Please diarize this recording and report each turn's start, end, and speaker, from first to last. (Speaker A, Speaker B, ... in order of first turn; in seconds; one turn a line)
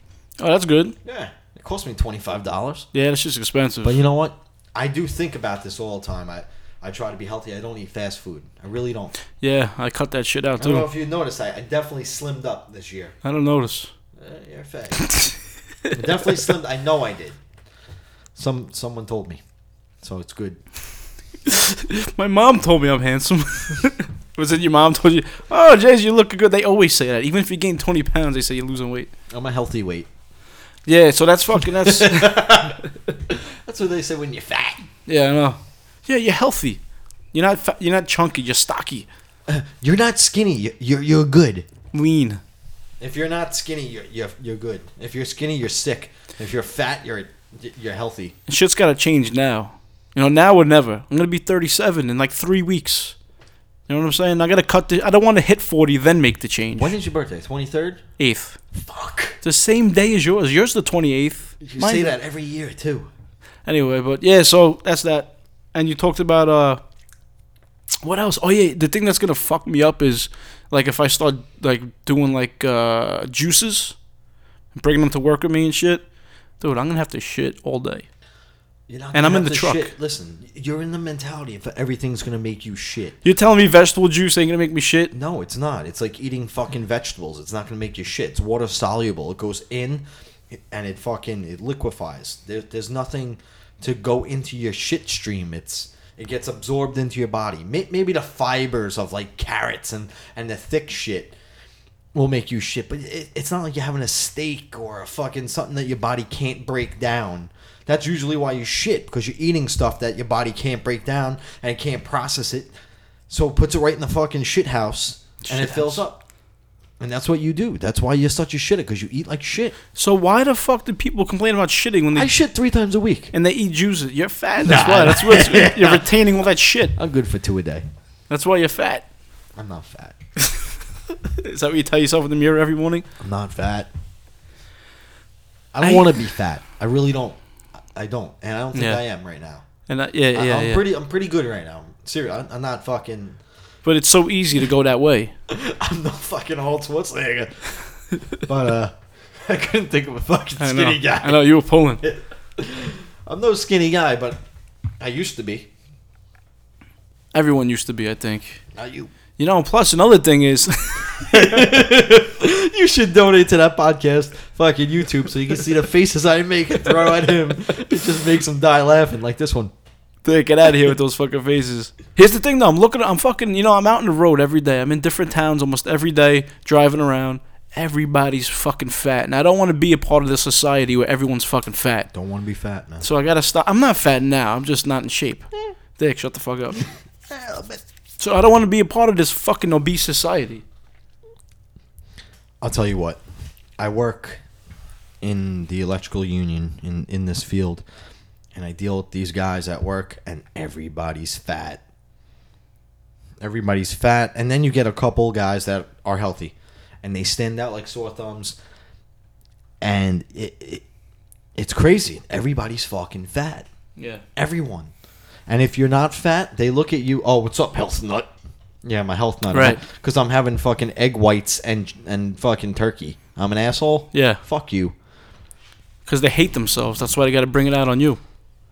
Speaker A: 0.4-1.0
Speaker B: 1.0-2.9
Speaker A: 2.9-4.0
Speaker B: 3.8-9.1
Speaker A: 9.4-10.9
Speaker B: 10.6-13.2
Speaker A: 13.2-13.9
Speaker B: 14.2-15.1
Speaker A: 15.0-15.4
Speaker B: 15.9-17.4
Speaker B: 18.4-19.4
Speaker B: 20.0-20.6
Speaker A: 21.5-29.1
Speaker B: 29.3-30.1
Speaker A: 30.9-32.8
Speaker B: 31.8-32.8
Speaker B: 33.3-34.9
Speaker A: 35.1-36.8
Speaker A: 37.3-39.1
Speaker B: 39.5-41.7
Speaker A: 41.9-42.4
Speaker B: 43.0-48.4
Speaker A: 48.5-53.2
Speaker A: 53.9-56.9
Speaker B: 56.7-58.0
Speaker A: 58.2-58.6
Speaker B: 58.7-59.4
Speaker A: 59.4-62.1
Speaker B: 61.6-63.1
Speaker A: 63.7-66.8
Speaker A: 68.0-74.0
Speaker A: 74.7-76.0
Speaker A: 76.6-78.1
Speaker B: 78.9-83.2
Speaker A: 79.1-79.9
Speaker A: 83.2-85.1
Speaker B: 85.1-101.3
Speaker B: 102.1-112.7
Speaker B: 113.3-116.2
Speaker A: 115.4-116.0
Speaker B: 117.0-119.8
Speaker A: 120.0-122.3
Speaker B: 122.1-123.3
Speaker A: 123.3-126.9
Speaker B: 124.6-126.1
Speaker B: 127.0-127.8
Speaker A: 128.3-129.1
Speaker B: 129.6-130.2
Speaker A: 130.4-133.1
Speaker B: 133.2-133.9
Speaker B: 135.7-137.4
Speaker A: 135.8-136.2
Speaker B: 137.9-139.7
Speaker A: 138.7-139.0
Speaker A: 139.9-140.8
Speaker B: 140.3-143.4
Speaker A: 143.8-145.3
Speaker B: 145.5-147.8
Speaker B: 148.4-151.4
Speaker A: 150.6-152.0
Speaker B: 152.0-154.4
Speaker B: 155.0-155.7
Speaker A: 157.3-158.6
Speaker B: 158.8-159.1
Speaker A: 159.4-161.7
Speaker B: 161.3-169.7
Speaker A: 170.2-182.1
Speaker B: 182.1-183.1
Speaker A: 183.0-186.9
Speaker B: 187.3-187.8
Speaker A: 188.2-190.6
Speaker B: 192.6-193.2
Speaker B: 193.8-194.4
Speaker B: 195.2-197.8
Speaker B: 198.5-201.8
Speaker B: 203.4-208.6
Speaker B: 209.8-210.8
Speaker B: 211.6-213.7
Speaker A: 214.0-214.2
Speaker B: 214.4-214.9
Speaker B: 215.5-218.3
Speaker B: 218.8-224.9
Speaker A: 219.5-219.8
Speaker A: 224.1-224.4
Speaker A: 226.1-228.2